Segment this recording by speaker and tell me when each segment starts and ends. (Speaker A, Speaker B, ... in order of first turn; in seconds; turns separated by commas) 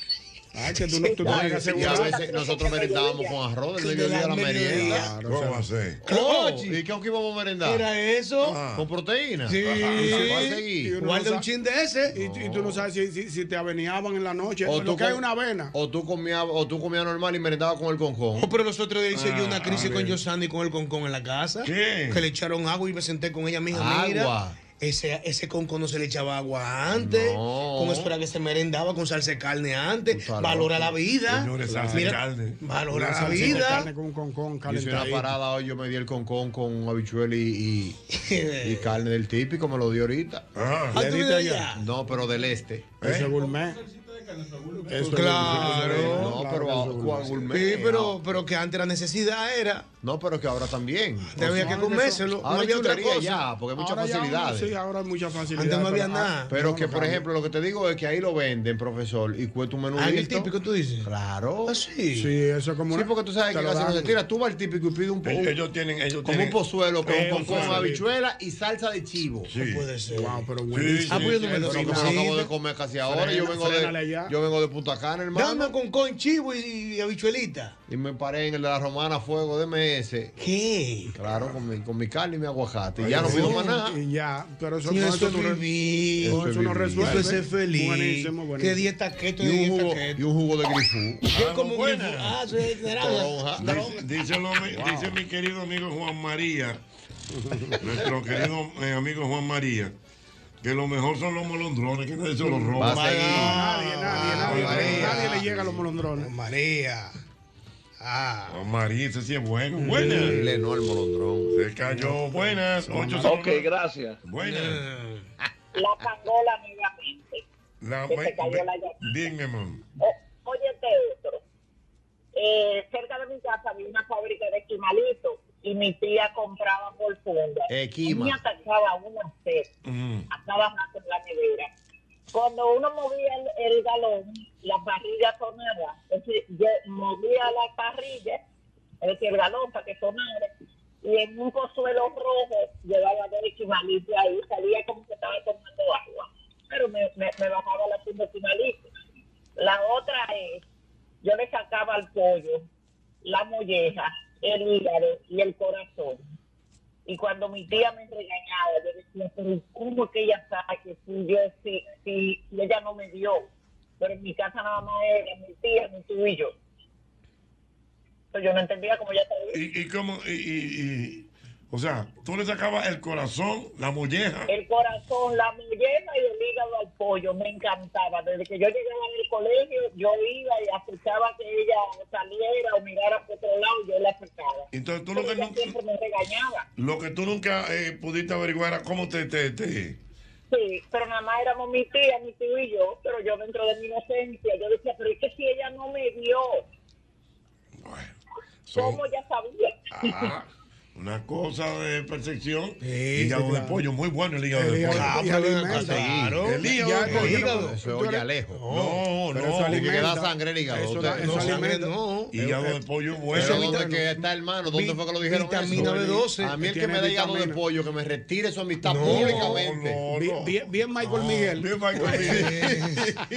Speaker A: 0.5-2.3, Speaker B: 1.0-1.9, Speaker C: 1.2-3.4, Speaker D: 1.3-5.0, Speaker B: 3.8-5.2, Speaker A: 4.6-5.7, Speaker E: 5.3-6.0, Speaker D: 6.0-7.9, Speaker B: 6.0-6.8, Speaker B: 7.6-8.7, Speaker E: 8.4-8.9, Speaker D: 8.7-10.9, Speaker B: 9.5-12.2, Speaker A: 9.7-11.5, Speaker A: 12.1-15.7, Speaker E: 12.2-12.8, Speaker D: 14.7-18.5, Speaker B: 18.4-33.9, Speaker E: 19.1-20.2, Speaker E: 21.6-22.2, Speaker D: 23.7-24.6, Speaker D: 26.9-28.1, Speaker D: 30.1-31.0, Speaker E: 31.3-32.6, Speaker A: 31.6-32.2, Speaker A: 32.9-35.4, Speaker D: 34.7-38.0, Speaker B: 38.1-39.0, Speaker D: 38.6-40.6, Speaker E: 40.5-41.0, Speaker B: 40.9-41.8, Speaker A: 40.9-41.7, Speaker D: 41.7-43.0, Speaker A: 43.0-43.8, Speaker E: 43.0-43.3, Speaker A: 44.9-47.6, Speaker B: 44.9-46.4, Speaker D: 46.0-48.4, Speaker B: 47.5-49.9, Speaker D: 50.0-51.6, Speaker B: 51.2-53.4, Speaker A: 51.4-52.4, Speaker D: 52.4-54.7, Speaker A: 53.8-57.3, Speaker B: 55.5-56.5, Speaker D: 56.5-60.5, Speaker B: 60.0-61.1, Speaker D: 61.0-61.8, Speaker B: 61.6-62.3, Speaker A: 62.1-64.2, Speaker D: 62.9-65.6, Speaker E: 65.3-67.9, Speaker D: 66.2-69.5, Speaker A: 67.0-68.1, Speaker E: 69.5-69.9, Speaker B: 69.5-70.5, Speaker A: 70.0-72.3, Speaker E: 70.7-71.6, Speaker B: 71.1-72.5, Speaker D: 72.0-75.7, Speaker A: 73.0-74.3, Speaker B: 75.3-77.8, Speaker D: 77.9-80.4, Speaker B: 80.4-81.2, Speaker D: 81.2-84.0, Speaker E: 83.0-83.4, Speaker A: 83.1-85.7, Speaker B: 83.3-83.7, Speaker B: 84.8-90.2, Speaker D: 86.2-87.3, Speaker A: 86.2-88.9, Speaker D: 89.4-91.2, Speaker E: 91.3-92.4, Speaker B: 91.3-94.0, Speaker D: 93.0-93.8, Speaker E: 93.6-96.8, Speaker A: 94.6-95.2, Speaker A: 97.3-97.8, Speaker E: 97.8-100.0, Speaker E: 100.6-103.6, Speaker B: 102.4-105.5, Speaker D: 102.8-103.6, Speaker A: 103.4-106.3, Speaker E: 104.2-105.4, Speaker B: 106.1-107.2, Speaker B: 108.0-108.6, Speaker E: 108.5-110.3, Speaker B: 109.8-110.6, Speaker D: 110.3-111.6, Speaker E: 111.5-113.7, Speaker A: 112.0-113.5, Speaker E: 114.2-114.8, Speaker B: 114.4-115.3, Speaker C: 115.7-117.4, Speaker E: 117.8-119.8, Speaker C: 118.1-119.0, Speaker C: 120.0-121.4, Speaker C: 122.3-129.7, Speaker D: 127.7-128.4, Speaker E: 129.8-130.3, Speaker C: 130.3-131.7, Speaker C: 132.3-138.4, Speaker C: 139.0-140.5, Speaker C: 141.0-148.9, Speaker C: 149.6-150.6, Speaker C: 151.2-152.6, Speaker C: 153.2-156.2, Speaker C: 157.1-163.4, Speaker C: 164.0-166.5, Speaker C: 168.3-169.6, Speaker E: 169.5-174.5, Speaker C: 174.5-186.7, Speaker E: 184.7-185.8, Speaker E: 186.8-190.0, Speaker C: 190.5-196.6, Speaker E: 197.8-198.1, Speaker E: 198.7-199.0, Speaker C: 198.8-200.2, Speaker E: 199.9-205.2, Speaker B: 202.8-203.4, Speaker A: 203.2-203.8, Speaker A: 204.5-208.3, Speaker B: 204.9-207.8, Speaker D: 206.0-206.4, Speaker E: 206.4-207.5, Speaker D: 207.6-208.6, Speaker B: 208.5-209.1, Speaker E: 208.7-209.8, Speaker A: 209.3-214.2, Speaker D: 209.7-211.4, Speaker B: 211.1-212.3, Speaker E: 212.3-213.7, Speaker D: 213.4-220.0, Speaker B: 214.7-216.6, Speaker A: 215.7-217.6, Speaker B: 218.8-219.6, Speaker A: 219.1-222.6, Speaker E: 219.1-220.7, Speaker B: 221.1-223.0, Speaker E: 221.6-222.8